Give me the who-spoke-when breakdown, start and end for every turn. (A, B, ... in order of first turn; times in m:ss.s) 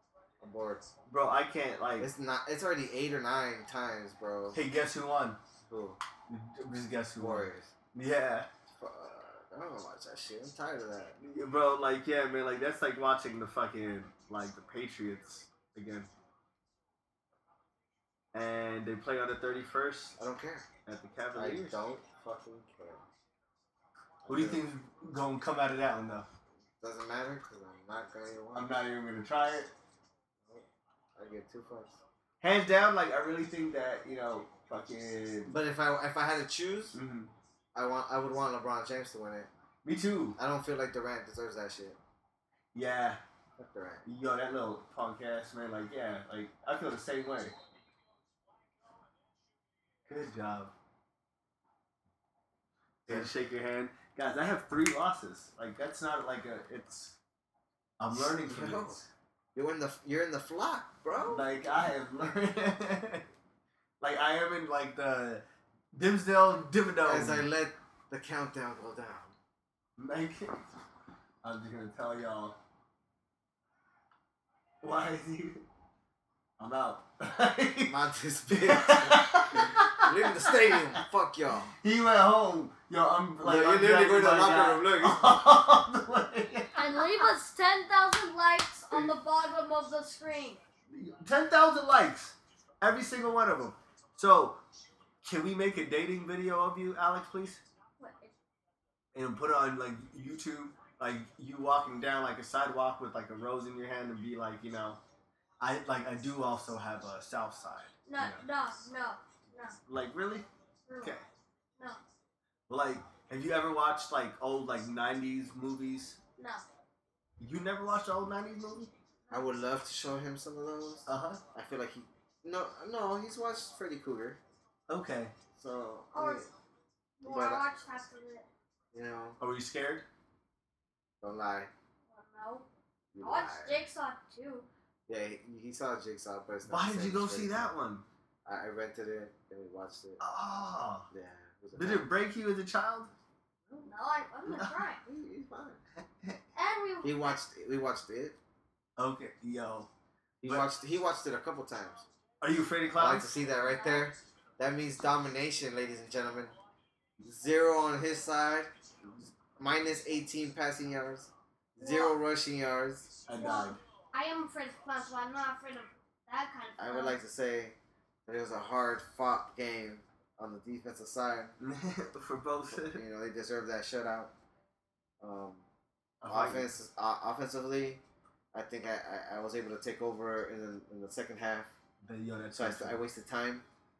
0:00.4-0:00.9 A
0:01.0-0:02.1 B
0:02.0-0:04.6 A
0:04.5-0:05.4 B
0:05.6-0:06.0 A
0:06.3-0:08.5 B
0:07.2-0:07.7 A
0:08.8-0:11.2 A
0:11.2-0:16.1 B
0:18.3-0:20.2 B
0:20.2-0:20.7 A
0:20.8-0:21.8 B
0:21.3-0:23.0 A
0:24.2-0:24.6 A
0:24.3-0:26.3 B
0:26.8-0:28.8 A
0:28.5-0:29.7 B
0:31.2-0:32.0 A
0:32.4-0:35.6 B
0:35.5-0:37.0 A
0:36.9-0:37.3 B
0:37.7-0:39.5 A
0:39.8-0:40.4 B
0:40.4-0:42.0 A
0:42.7-0:43.2 B
0:43.6-0:44.0 A
0:44.0-0:47.5 B
0:50.1-0:50.7 B
0:53.1-0:57.2 B
0:58.0-0:59.1 B
0:58.1-0:59.0 A
0:59.5-1:01.4 A
1:01.3-1:03.3 B
1:04.0-1:07.4 B
1:07.0-1:09.4 A
1:10.0-1:10.6 B
1:11.4-1:12.6 B
1:14.8-1:15.6 B
1:16.6-1:21.0 B
1:17.9-1:21.7 A
1:21.8-1:27.2 B
1:23.4-1:25.3 A
1:26.8-1:30.6 C
1:30.9-1:34.6 B
1:35.2-1:37.6 B
1:38.0-1:38.3 C
1:39.1-1:45.0 B
1:45.6-1:48.4 B
1:48.0-1:49.8 C
1:49.9-1:50.5 B
1:50.9-1:51.2 C
1:52.7-1:56.2 B
1:56.4-1:56.6 C
1:57.4-1:58.9 B
1:59.3-2:04.4 A
2:01.1-2:01.4 B
2:04.9-2:05.3 B
2:05.5-2:06.5 A
2:06.1-2:06.5 C
2:07.2-2:08.5 C
2:07.2-2:07.6 A
2:08.9-2:09.4 A
2:09.4-2:10.0 B
2:11.2-2:11.7 A
2:12.1-2:12.7 C
2:13.1-2:13.8 A
2:13.2-2:14.7 C
2:15.1-2:17.7 A
2:16.7-2:18.0 B
2:18.4-2:20.2 A
2:20.2-2:21.1 B
2:21.1-2:22.1 A
2:21.7-2:23.1 B
2:23.8-2:25.0 C
2:24.5-2:24.8 B
2:25.0-2:25.8 A
2:26.5-2:27.3 C
2:27.0-2:28.4 A
2:29.0-2:29.9 B
2:30.4-2:32.0 A
2:32.4-2:33.3 B
2:32.9-2:36.5 A
2:33.4-2:34.0 C
2:37.2-2:38.7 A
2:39.4-2:43.1 A
2:41.8-2:42.2 C
2:43.3-2:43.8 B
2:43.3-2:47.2 C
2:46.8-2:51.5 A
2:51.6-2:53.0 B
2:52.7-2:54.3 A
2:55.2-2:55.7 A
2:56.2-2:56.7 B
2:56.3-2:58.0 A
2:58.5-3:01.7 A
3:02.0-3:03.0 B
3:02.5-3:03.6 A